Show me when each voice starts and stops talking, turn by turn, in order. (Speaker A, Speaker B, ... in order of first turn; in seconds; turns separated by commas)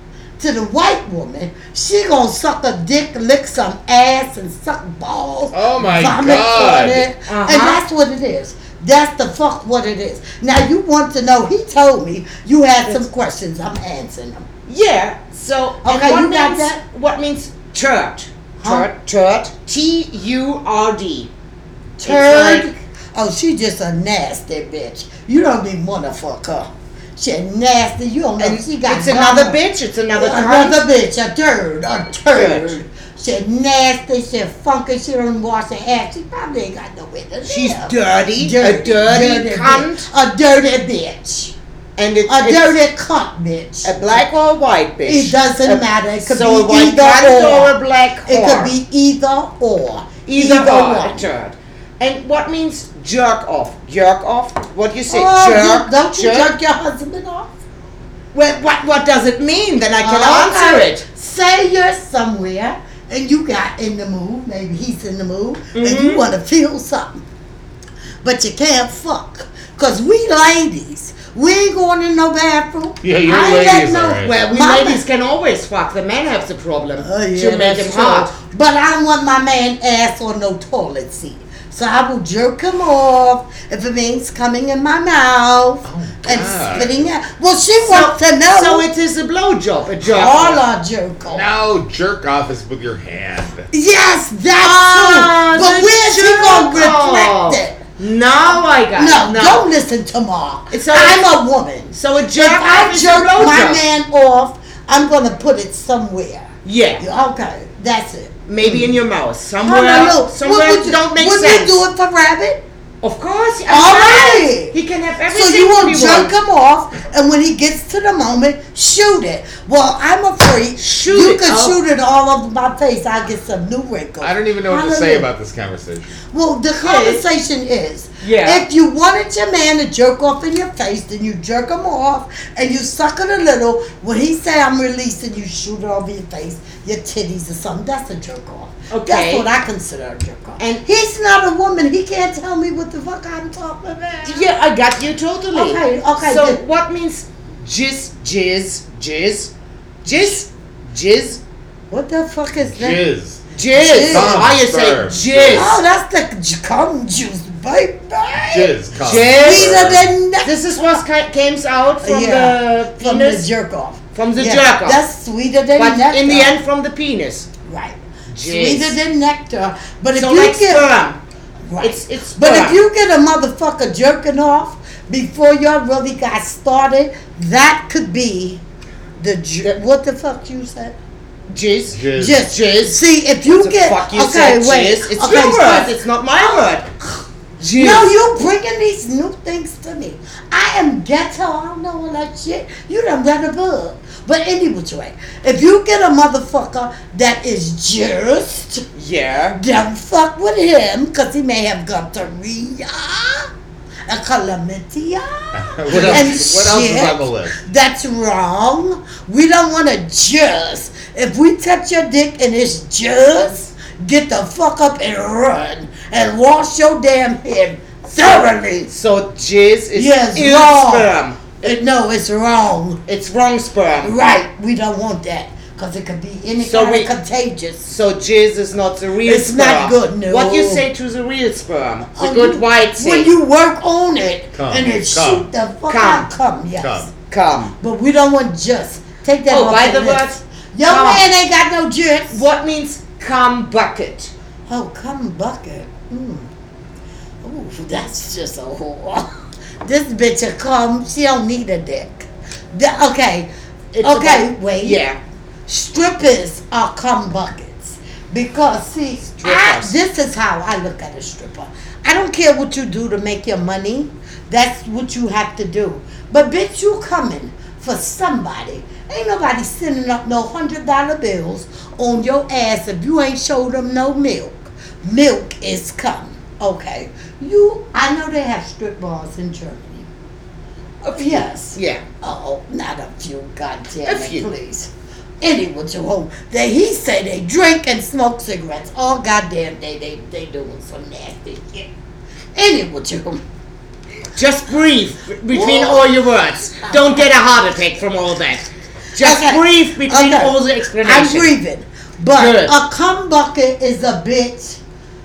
Speaker A: 0.4-14.4, Speaker B: 5.5-7.1, Speaker C: 7.3-7.8, Speaker C: 14.7-21.3, Speaker A: 15.8-16.8, Speaker A: 18.6-18.9, Speaker A: 22.0-29.6, Speaker C: 22.0-22.7, Speaker C: 28.4-30.8, Speaker A: 30.1-41.5, Speaker C: 32.3-32.8, Speaker C: 37.5-40.0, Speaker C: 42.0-42.8, Speaker A: 42.3-43.9, Speaker C: 43.8-48.7, Speaker A: 45.0-47.7, Speaker A: 48.3-51.3, Speaker C: 50.2-56.5, Speaker A: 55.1-57.6, Speaker C: 58.3-61.0, Speaker A: 60.0-67.2, Speaker C: 65.7-66.2, Speaker A: 68.2-75.0, Speaker B: 73.0-74.3, Speaker C: 74.2-78.3, Speaker A: 77.0-88.8, Speaker B: 85.8-87.1, Speaker C: 87.8-90.6, Speaker A: 90.0-91.5, Speaker B: 91.3-93.7, Speaker A: 93.7-97.8, Speaker C: 94.6-99.6, Speaker A: 98.9-106.5, Speaker C: 100.7-101.2, Speaker C: 101.9-103.8, Speaker C: 106.6-107.0, Speaker A: 107.0-108.8, Speaker C: 108.5-111.7, Speaker A: 109.6-112.6, Speaker C: 113.0-116.3, Speaker A: 113.7-114.7, Speaker A: 115.3-125.3, Speaker C: 120.8-121.8, Speaker B: 124.2-126.2, Speaker A: 126.3-144.5, Speaker C: 126.8-127.2, Speaker C: 128.2-128.6, Speaker C: 138.9-139.5, Speaker C: 144.2-149.5, Speaker A: 145.5-146.6, Speaker C: 150.0-151.4, Speaker A: 151.9-153.1, Speaker B: 152.7-153.4, Speaker C: 153.5-155.8, Speaker A: 153.7-154.5, Speaker B: 154.1-155.8, Speaker A: 155.5-158.8, Speaker B: 158.5-160.1, Speaker C: 159.0-159.9, Speaker A: 159.3-161.0, Speaker C: 160.4-163.5, Speaker A: 162.0-166.6, Speaker C: 164.1-165.0, Speaker C: 165.8-167.5, Speaker A: 167.7-170.9, Speaker C: 168.3-168.9, Speaker C: 170.2-171.2, Speaker A: 171.7-178.6, Speaker C: 171.8-172.8, Speaker A: 179.2-180.9, Speaker C: 181.5-186.8, Speaker B: 181.9-182.4, Speaker A: 182.1-187.2, Speaker C: 187.6-188.1, Speaker A: 187.8-198.8, Speaker C: 198.9-199.6, Speaker A: 199.6-203.5, Speaker A: 204.1-218.9, Speaker B: 205.5-207.6, Speaker C: 205.9-206.4, Speaker C: 218.9-221.6, Speaker A: 219.9-223.0, Speaker C: 223.1-224.1, Speaker A: 224.0-227.8, Speaker C: 226.6-227.1, Speaker C: 227.8-233.3, Speaker A: 229.2-230.8, Speaker A: 232.2-237.1, Speaker B: 234.5-235.5, Speaker C: 235.9-236.3, Speaker B: 236.8-237.1, Speaker C: 237.3-237.7, Speaker A: 237.8-242.4, Speaker C: 239.5-241.2, Speaker C: 242.3-244.3, Speaker A: 244.7-246.4, Speaker A: 247.4-249.3, Speaker A: 249.8-253.5, Speaker C: 253.9-255.2, Speaker A: 254.0-255.0, Speaker A: 255.7-280.1, Speaker C: 259.4-259.9, Speaker C: 281.1-282.0, Speaker A: 281.1-284.9, Speaker C: 284.0-284.5, Speaker A: 285.4-291.9, Speaker A: 292.5-293.4, Speaker C: 294.4-298.6, Speaker A: 295.5-296.2, Speaker A: 296.8-297.2, Speaker C: 299.1-301.5, Speaker A: 299.2-304.8, Speaker C: 302.4-302.7